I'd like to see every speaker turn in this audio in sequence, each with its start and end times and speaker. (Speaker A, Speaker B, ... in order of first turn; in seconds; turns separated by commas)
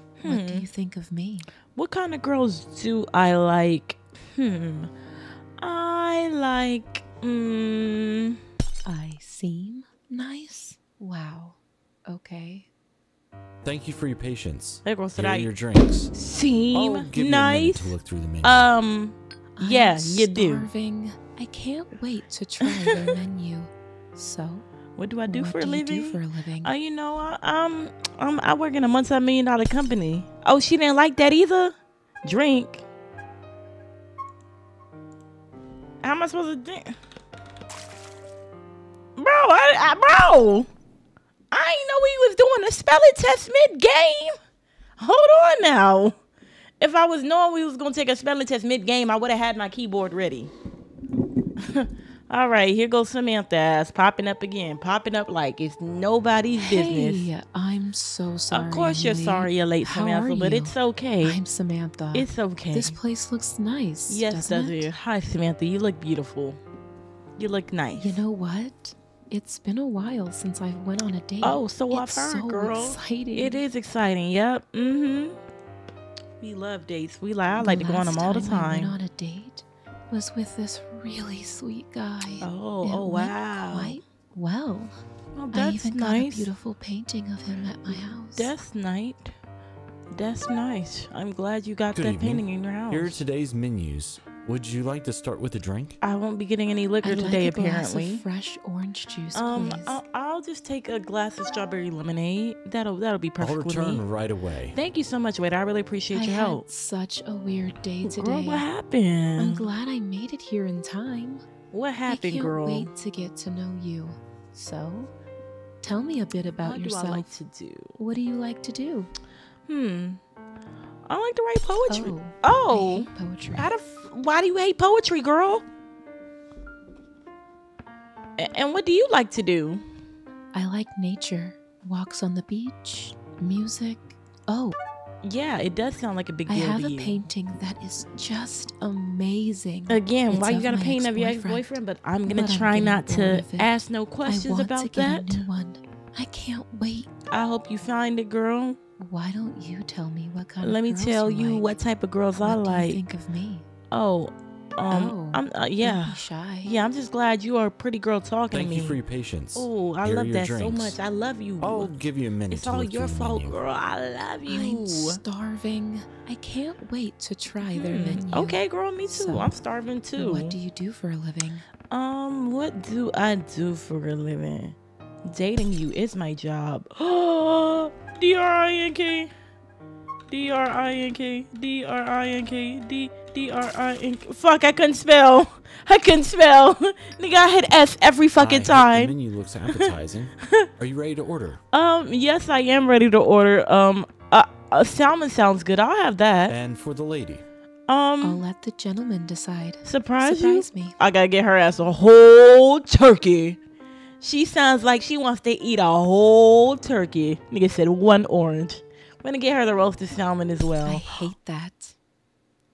Speaker A: 0.2-0.7, Speaker B: 0.2-1.5, Speaker A: 1.8-4.9, Speaker A: 5.6-8.4, Speaker B: 8.8-12.7, Speaker C: 13.6-16.1, Speaker A: 14.8-15.5, Speaker A: 16.1-20.7, Speaker C: 16.7-18.6, Speaker B: 19.6-24.7, Speaker A: 22.6-23.1, Speaker A: 25.0-32.8, Speaker B: 25.3-26.7, Speaker A: 36.0-37.0, Speaker A: 39.2-40.7, Speaker A: 41.5-44.4, Speaker A: 45.0-46.2, Speaker A: 46.8-50.5, Speaker A: 51.6-57.3, Speaker B: 56.6-64.9, Speaker A: 58.5-61.4, Speaker A: 62.1-63.0, Speaker A: 64.1-66.6, Speaker A: 67.4-68.2, Speaker B: 67.9-73.6, Speaker A: 71.4-75.4, Speaker A: 76.4-79.0, Speaker B: 77.6-85.0, Speaker A: 82.4-84.0, Speaker A: 85.3-86.5, Speaker B: 85.5-88.5, Speaker A: 87.9-89.3, Speaker A: 90.1-93.2, Speaker C: 92.0-96.0, Speaker A: 96.0-98.2, Speaker B: 97.0-100.0, Speaker A: 99.3-104.0, Speaker C: 103.4-104.8, Speaker A: 104.7-106.6, Speaker B: 106.1-108.7, Speaker A: 108.0-109.7, Speaker B: 109.4-111.4, Speaker A: 111.7-112.9, Speaker B: 112.1-115.1, Speaker B: 115.8-117.4, Speaker A: 116.6-117.9, Speaker B: 118.0-119.1, Speaker A: 119.7-120.2, Speaker A: 121.1-125.6, Speaker B: 121.9-123.7, Speaker A: 128.4-129.8, Speaker B: 130.5-134.8, Speaker A: 135.2-137.2, Speaker B: 136.5-147.1, Speaker A: 139.9-145.4, Speaker A: 147.3-148.8, Speaker B: 149.0-151.7, Speaker A: 150.6-153.0, Speaker B: 152.4-153.7, Speaker A: 153.9-159.0, Speaker B: 154.9-156.7, Speaker C: 158.5-161.0, Speaker A: 159.6-161.9, Speaker C: 161.6-163.6, Speaker A: 162.5-165.2, Speaker B: 164.5-169.6, Speaker A: 167.7-170.5, Speaker B: 170.2-171.7, Speaker A: 171.9-179.3, Speaker A: 180.3-189.1, Speaker C: 188.4-191.6, Speaker A: 191.7-196.6, Speaker C: 196.5-197.4, Speaker A: 197.9-198.4, Speaker B: 198.2-201.0, Speaker A: 199.8-203.6, Speaker A: 204.2-211.2, Speaker B: 210.8-211.9